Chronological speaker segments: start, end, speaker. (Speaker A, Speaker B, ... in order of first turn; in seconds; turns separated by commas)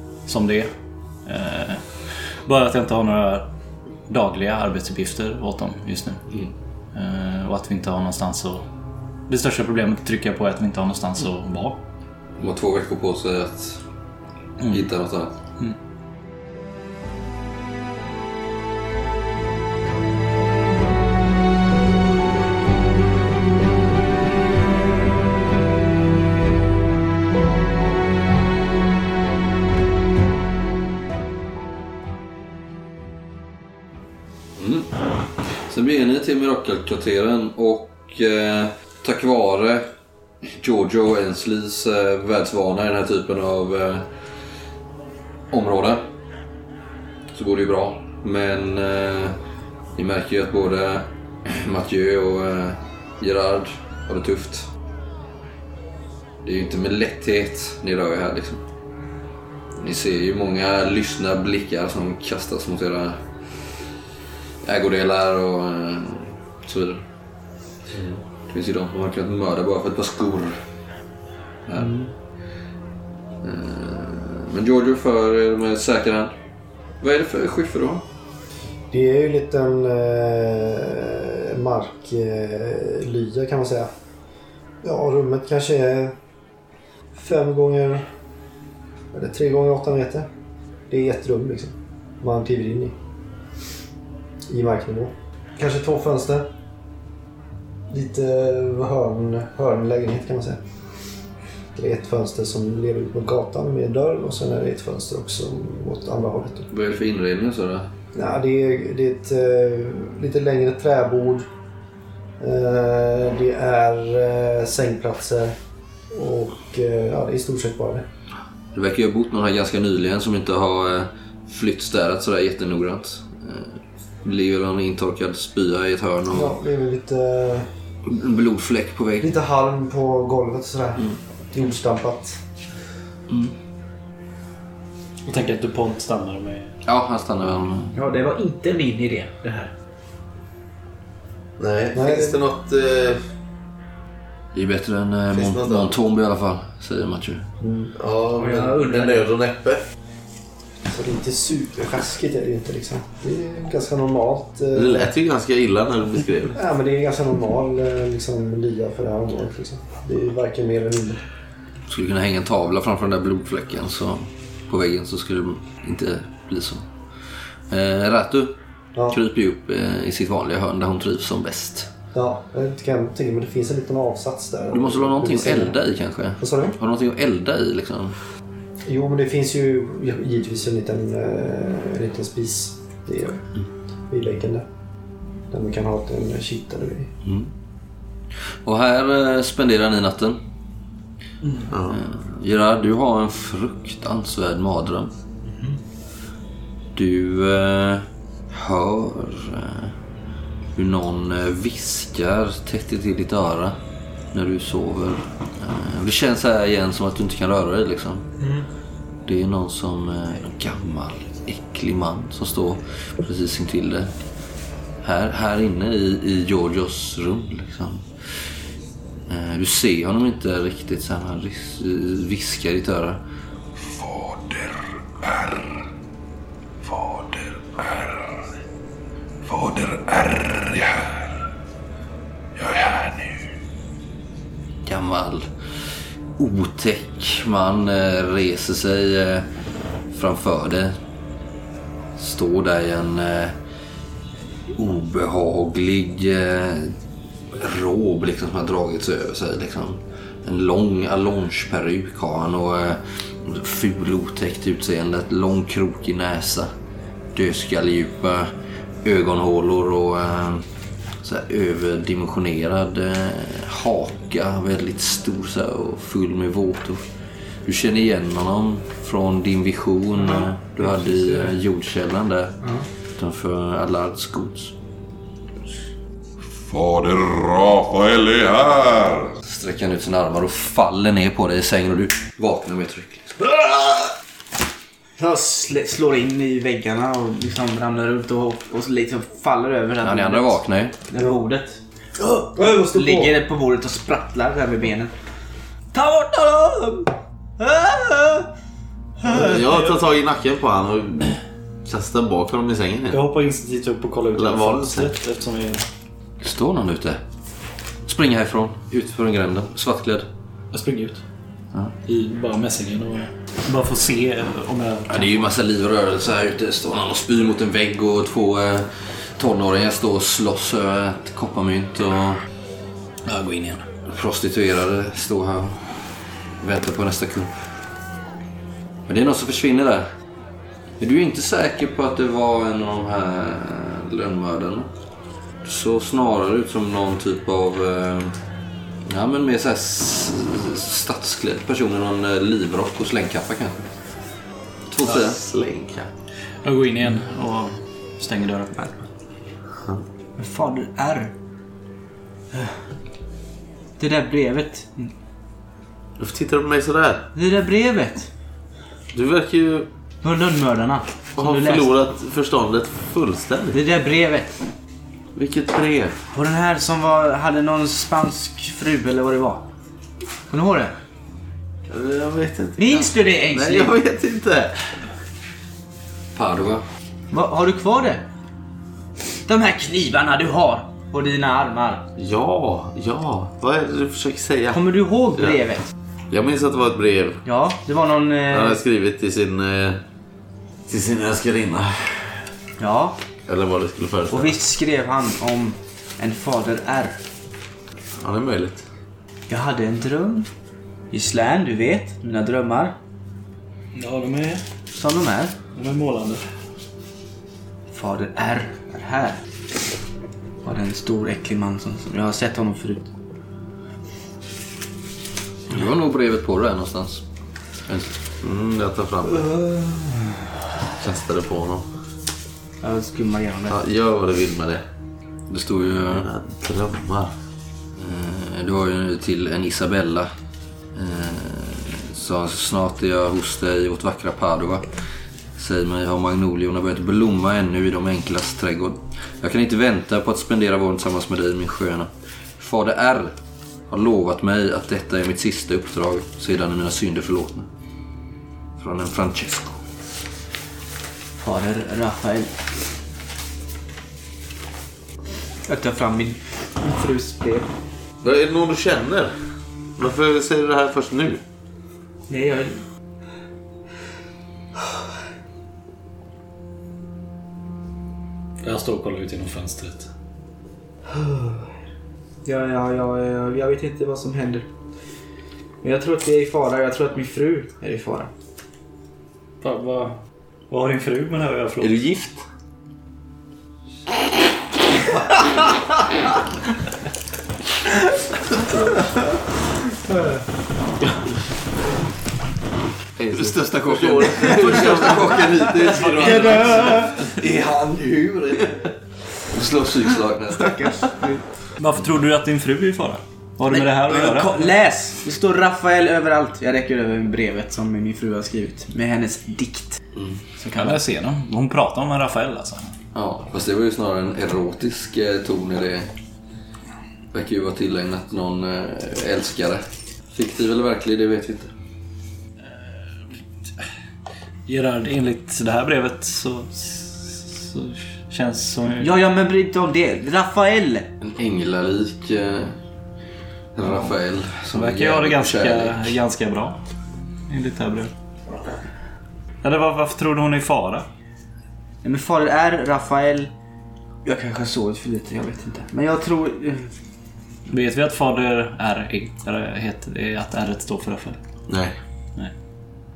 Speaker A: 0.2-0.7, Speaker A: 1.2-3.5, Speaker A: 4.1-6.2, Speaker A: 6.9-8.7, Speaker A: 9.3-11.8, Speaker B: 12.4-13.8, Speaker A: 14.6-14.9, Speaker B: 14.7-15.3, Speaker B: 34.6-39.9, Speaker B: 40.4-44.1, Speaker B: 45.5-46.0, Speaker B: 47.3-49.4, Speaker B: 49.9-54.7, Speaker B: 56.4-58.6, Speaker B: 59.8-63.2, Speaker B: 64.6-67.0, Speaker C: 67.9-68.2, Speaker B: 68.5-70.6, Speaker B: 71.7-71.9, Speaker D: 71.8-72.1, Speaker B: 73.4-76.3, Speaker B: 77.0-78.0, Speaker E: 78.9-83.9, Speaker E: 84.8-86.2, Speaker E: 87.1-88.1, Speaker E: 89.1-90.3, Speaker E: 90.9-93.0, Speaker E: 94.5-96.5, Speaker E: 97.9-100.6, Speaker E: 101.7-106.7, Speaker B: 106.7-107.9, Speaker E: 108.1-111.5, Speaker E: 112.4-115.5, Speaker E: 116.1-118.0, Speaker B: 118.7-126.5, Speaker E: 126.3-127.7, Speaker B: 128.1-129.3, Speaker E: 129.2-132.4, Speaker B: 133.3-133.6, Speaker A: 135.2-136.7, Speaker B: 136.8-138.0, Speaker D: 137.9-139.7, Speaker C: 141.6-143.2, Speaker E: 141.9-142.4, Speaker B: 144.5-147.5, Speaker C: 145.3-145.9, Speaker E: 147.6-147.9, Speaker C: 147.9-149.8, Speaker D: 148.3-149.3, Speaker E: 150.9-155.1, Speaker C: 154.7-156.6, Speaker E: 156.5-161.2, Speaker B: 161.9-168.6, Speaker B: 169.1-171.9, Speaker E: 172.1-175.8, Speaker B: 174.7-178.2, Speaker E: 176.4-176.8, Speaker E: 178.8-183.5, Speaker E: 184.1-184.7, Speaker E: 185.5-187.1, Speaker B: 187.2-187.5, Speaker B: 188.6-190.4, Speaker C: 191.7-192.0, Speaker B: 191.9-195.1, Speaker B: 196.9-199.9, Speaker B: 200.8-203.8, Speaker B: 204.3-208.2, Speaker B: 209.3-214.1, Speaker B: 215.0-218.5, Speaker B: 219.3-223.2, Speaker F: 223.8-225.8, Speaker F: 226.8-228.5, Speaker F: 229.4-231.3, Speaker F: 232.6-233.5, Speaker B: 234.8-239.5, Speaker B: 240.1-240.9, Speaker B: 242.2-243.5, Speaker B: 244.7-247.0, Speaker B: 247.5-256.7, Speaker B: 257.3-258.5, Speaker B: 259.0-260.6, Speaker B: 261.2-267.0, Speaker B: 267.6-272.6, Speaker D: 270.2-271.5, Speaker B: 273.2-274.7, Speaker F: 276.5-279.4, Speaker B: 279.4-284.1, Speaker D: 285.2-295.1, Speaker B: 290.0-290.9, Speaker E: 292.5-293.4, Speaker D: 295.9-298.5, Speaker D: 299.2-299.6, Speaker C: 299.2-303.2, Speaker A: 303.1-305.9, Speaker C: 304.3-305.1, Speaker B: 306.4-307.2, Speaker B: 308.1-310.3, Speaker A: 310.7-311.2, Speaker A: 312.1-315.5, Speaker B: 315.1-322.4, Speaker A: 323.2-323.9, Speaker B: 324.1-326.1, Speaker B: 326.6-327.5, Speaker B: 329.1-330.1, Speaker B: 331.0-334.9, Speaker B: 335.6-338.3, Speaker B: 339.1-343.9, Speaker B: 344.9-345.4, Speaker C: 345.0-346.1, Speaker A: 346.6-348.9, Speaker C: 349.8-350.0, Speaker D: 350.4-351.3, Speaker D: 352.5-352.9, Speaker D: 354.0-355.1, Speaker C: 356.2-357.3, Speaker D: 357.3-358.3, Speaker C: 359.1-359.9, Speaker D: 360.2-361.9, Speaker C: 361.4-363.8, Speaker D: 363.7-364.6, Speaker C: 365.3-366.1, Speaker D: 366.3-369.7, Speaker D: 370.5-370.9, Speaker C: 371.9-374.8, Speaker D: 372.8-374.0, Speaker B: 376.3-376.8, Speaker D: 377.3-378.2, Speaker D: 379.4-382.1, Speaker C: 382.2-384.8, Speaker D: 384.7-385.8, Speaker C: 386.3-387.4, Speaker D: 387.4-388.8, Speaker C: 388.5-390.0, Speaker C: 390.9-392.4, Speaker D: 392.8-393.2, Speaker C: 393.5-394.6, Speaker D: 394.3-397.2, Speaker C: 398.2-398.8, Speaker D: 399.5-400.5, Speaker D: 401.1-402.9, Speaker A: 403.9-404.6, Speaker D: 404.9-405.5, Speaker A: 405.7-406.5, Speaker D: 407.9-409.4, Speaker D: 410.6-413.1, Speaker B: 415.7-417.2, Speaker C: 418.4-419.5, Speaker D: 419.4-420.5, Speaker C: 421.0-421.9, Speaker D: 422.8-423.8, Speaker C: 423.7-424.8, Speaker B: 425.5-426.3, Speaker C: 426.1-427.3, Speaker B: 428.0-430.3, Speaker B: 430.9-443.3, Speaker B: 443.9-447.7, Speaker B: 448.8-449.8, Speaker D: 451.4-452.6, Speaker D: 455.6-457.7, Speaker C: 458.2-459.4, Speaker C: 460.0-461.4, Speaker D: 462.3-462.8, Speaker A: 468.6-470.1, Speaker D: 471.1-471.6, Speaker D: 472.4-474.7, Speaker D: 475.8-478.3, Speaker A: 479.6-480.2, Speaker A: 480.7-482.0, Speaker C: 481.8-482.3, Speaker B: 488.6-489.0, Speaker C: 493.2-496.5, Speaker B: 493.3-501.1, Speaker A: 496.0-497.2, Speaker D: 496.2-497.2, Speaker D: 500.6-501.5, Speaker A: 501.8-504.7, Speaker D: 503.7-510.0, Speaker B: 510.1-510.4, Speaker D: 510.6-511.0, Speaker A: 510.8-512.9, Speaker B: 513.1-516.1, Speaker B: 517.3-521.7, Speaker A: 524.7-529.1, Speaker D: 529.0-531.1, Speaker B: 531.2-532.8, Speaker B: 533.7-536.1, Speaker A: 534.7-536.8, Speaker A: 537.5-538.1, Speaker A: 539.6-541.0, Speaker D: 542.0-543.5, Speaker D: 544.2-546.9, Speaker A: 547.7-551.4, Speaker C: 551.7-552.0